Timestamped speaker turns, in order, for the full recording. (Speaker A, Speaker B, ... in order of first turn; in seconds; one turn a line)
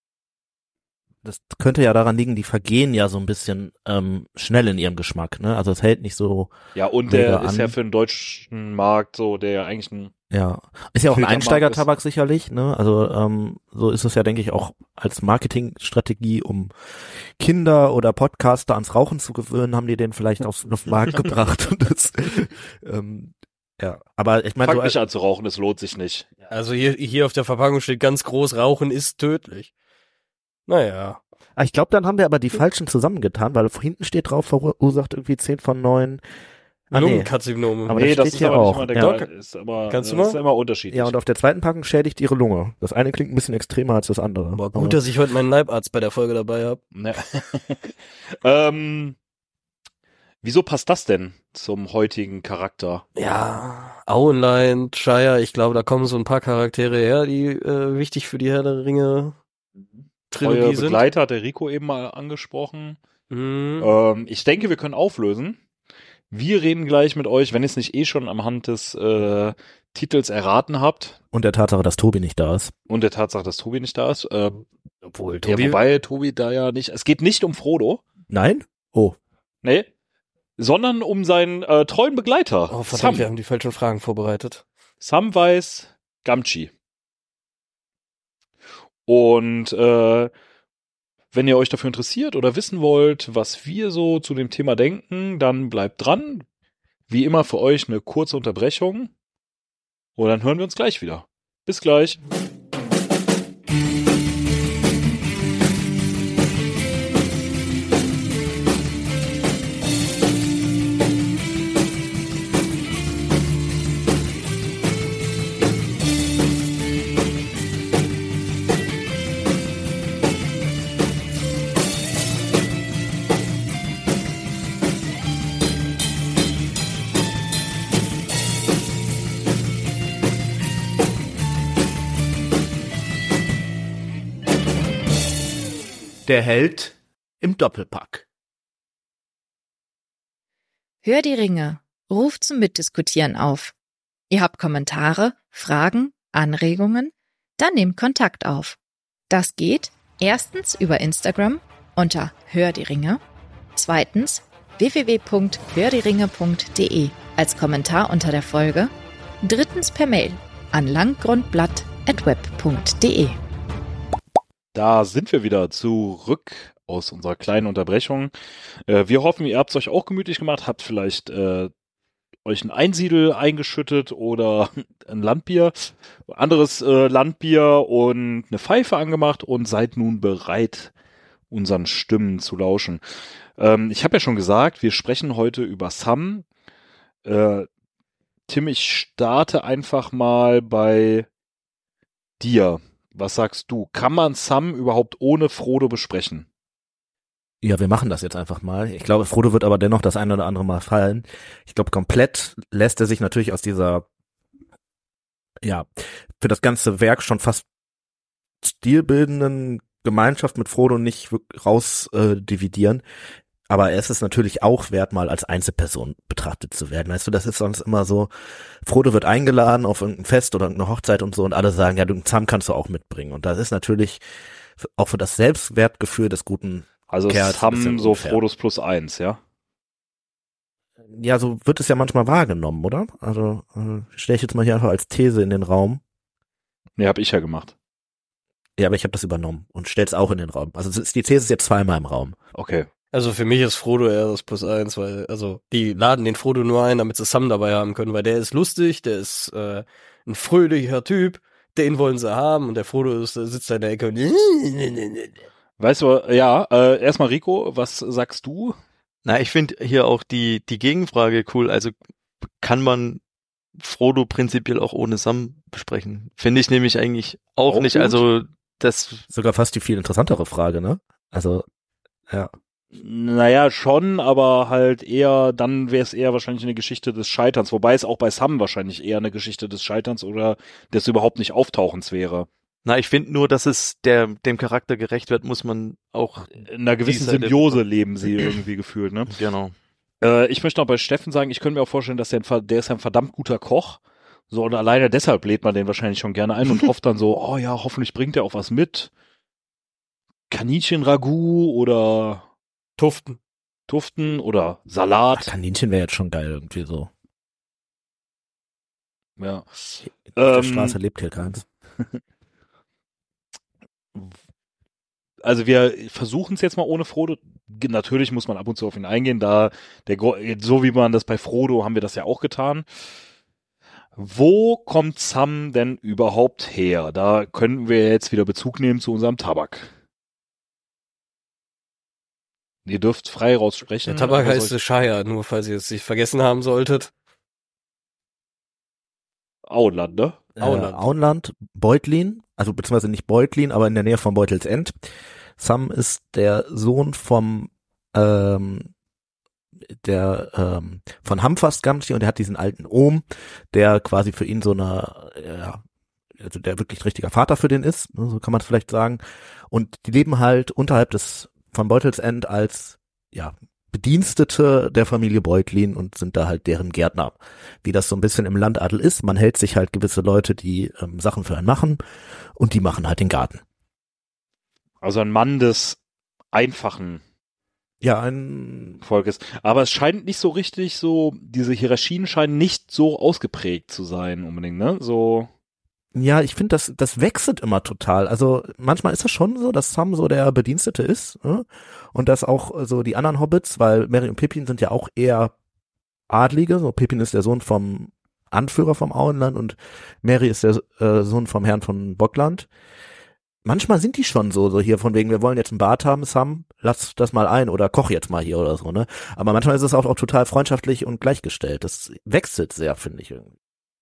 Speaker A: 1.2-6.5
Speaker B: 6.7-10.1
Speaker A: 7.1-7.7
Speaker A: 10.3-16.7
Speaker B: 11.1-11.8
Speaker A: 17.4-25.0
Speaker B: 24.6-26.3
Speaker C: 26.5-29.7
Speaker C: 30.7-31.2
Speaker A: 31.6-36.2
Speaker A: 36.9-37.3
Speaker C: 36.9-39.3
Speaker A: 37.8-39.2
Speaker B: 38.0-41.1
Speaker C: 39.9-40.4
Speaker A: 40.9-45.0
Speaker C: 44.5-46.8
Speaker B: 46.9-49.1
Speaker B: 50.4-53.0
Speaker C: 53.1-59.4
Speaker C: 60.3-61.0
Speaker B: 60.4-63.0
Speaker C: 63.3-63.9
Speaker B: 63.8-65.6
Speaker B: 66.3-71.2
Speaker A: 71.3-72.7
Speaker B: 72.9-74.6
Speaker C: 75.0-75.8
Speaker B: 75.4-78.0
Speaker A: 78.3-79.2
Speaker B: 80.6-83.3
Speaker C: 82.7-84.6
Speaker B: 85.0-86.7
Speaker B: 89.1-90.3
Speaker B: 91.3-96.4
Speaker B: 97.1-99.1
Speaker B: 100.2-102.2
Speaker A: 136.2-138.2
Speaker D: 141.0-143.7
Speaker D: 144.3-148.8
Speaker D: 149.3-153.2
Speaker D: 153.8-158.9
Speaker D: 159.4-163.3
Speaker B: 164.7-168.3
Speaker B: 168.9-171.7
Speaker B: 172.4-180.9
Speaker B: 181.5-183.0
Speaker B: 183.6-186.4
Speaker B: 187.2-187.7
Speaker B: 188.5-191.3
Speaker B: 192.4-196.4
Speaker A: 197.6-204.0
Speaker A: 205.6-205.9
Speaker A: 206.4-207.6
Speaker A: 208.6-213.0
Speaker A: 213.7-218.3
Speaker A: 218.8-224.2
Speaker A: 224.8-228.4
Speaker B: 227.1-229.4
Speaker A: 231.1-236.0
Speaker B: 237.0-237.7
Speaker A: 238.8-242.3
Speaker B: 242.5-242.9
Speaker C: 243.1-255.3
Speaker B: 255.8-258.8
Speaker E: 259.2-261.9
Speaker E: 262.6-263.2
Speaker E: 263.8-269.2
Speaker B: 267.7-268.2
Speaker A: 269.3-271.6
Speaker B: 272.9-282.5
Speaker E: 282.8-287.8
Speaker B: 286.6-289.3
Speaker E: 289.3-289.7
Speaker B: 290.2-294.0
Speaker B: 294.5-299.1
Speaker B: 300.5-302.4
Speaker C: 303.0-303.4
Speaker B: 303.9-305.5
Speaker A: 305.3-307.1
Speaker B: 309.4-311.0
Speaker A: 310.2-311.6
Speaker B: 315.4-323.1
Speaker B: 324.2-329.9
Speaker B: 332.9-334.7
Speaker C: 334.0-337.1
Speaker B: 339.7-340.4
Speaker A: 340.6-344.9
Speaker C: 340.6-341.0
Speaker A: 345.6-348.9
Speaker A: 350.0-355.8
Speaker A: 356.4-359.2
Speaker A: 359.7-372.0
Speaker A: 372.6-373.6
Speaker B: 375.0-376.0
Speaker B: 376.5-377.2
Speaker A: 378.0-379.0
Speaker B: 379.0-385.5
Speaker A: 386.1-395.5
Speaker A: 396.3-402.7
Speaker A: 403.6-413.5